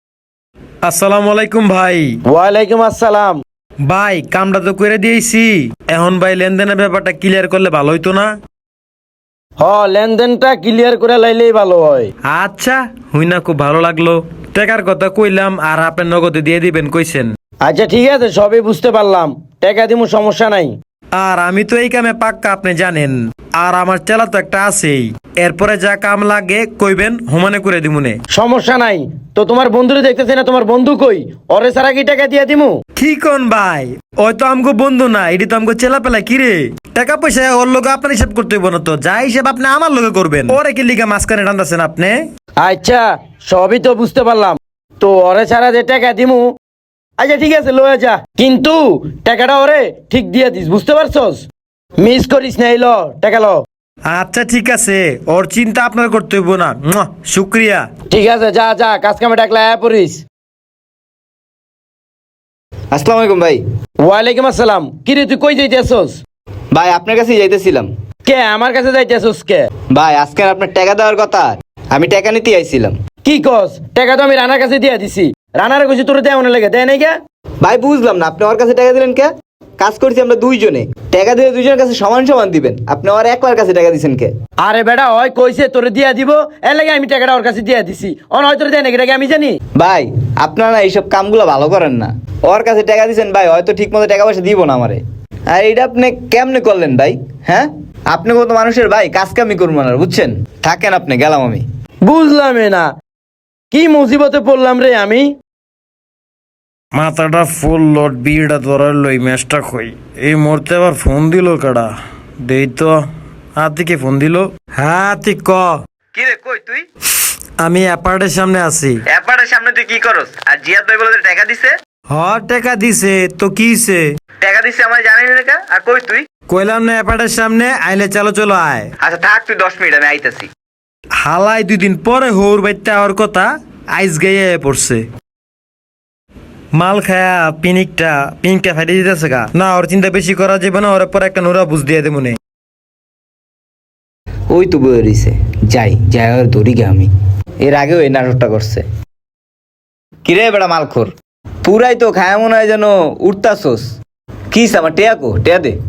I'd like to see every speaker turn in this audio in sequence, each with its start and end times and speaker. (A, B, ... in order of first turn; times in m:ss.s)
0:00.8-0:02.2 A
0:02.3-0:03.4 B
0:03.8-0:08.3 A
0:09.6-0:12.1 B
0:12.2-0:17.3 A
0:17.6-0:20.7 B
0:21.1-0:28.2 A
0:28.3-0:32.7 B
0:33.0-0:42.2 A
0:42.6-0:46.5 B
0:47.2-0:51.4 B
0:52.0-0:53.6 B
0:54.0-0:57.8 A
0:58.1-1:00.2 B
1:02.9-1:03.6 C
1:04.0-1:06.2 B
1:06.7-1:07.9 C
1:08.2-1:09.7 B
1:09.9-1:12.9 C
1:13.2-1:17.1 B
1:17.6-1:24.3 C
1:24.6-1:29.6 B
1:29.8-1:41.6 C
1:42.0-1:42.9 B
1:43.7-1:45.3 B
1:46.9-1:51.9 A
1:52.4-1:53.0 A
1:53.6-1:55.7 A
1:56.1-1:56.8 C
1:57.6-1:59.0 A
1:59.1-2:01.7 C
2:02.1-2:04.0 A
2:04.4-2:06.2 C
2:06.5-2:08.9 A
2:09.0-2:10.5 C
2:11.2-2:15.0 A
2:16.7-2:22.4 A
2:24.5-2:27.1 C
2:27.6-2:28.8 C
2:30.2-2:31.1 C
2:31.6-2:33.9 C
2:34.5-2:35.7 C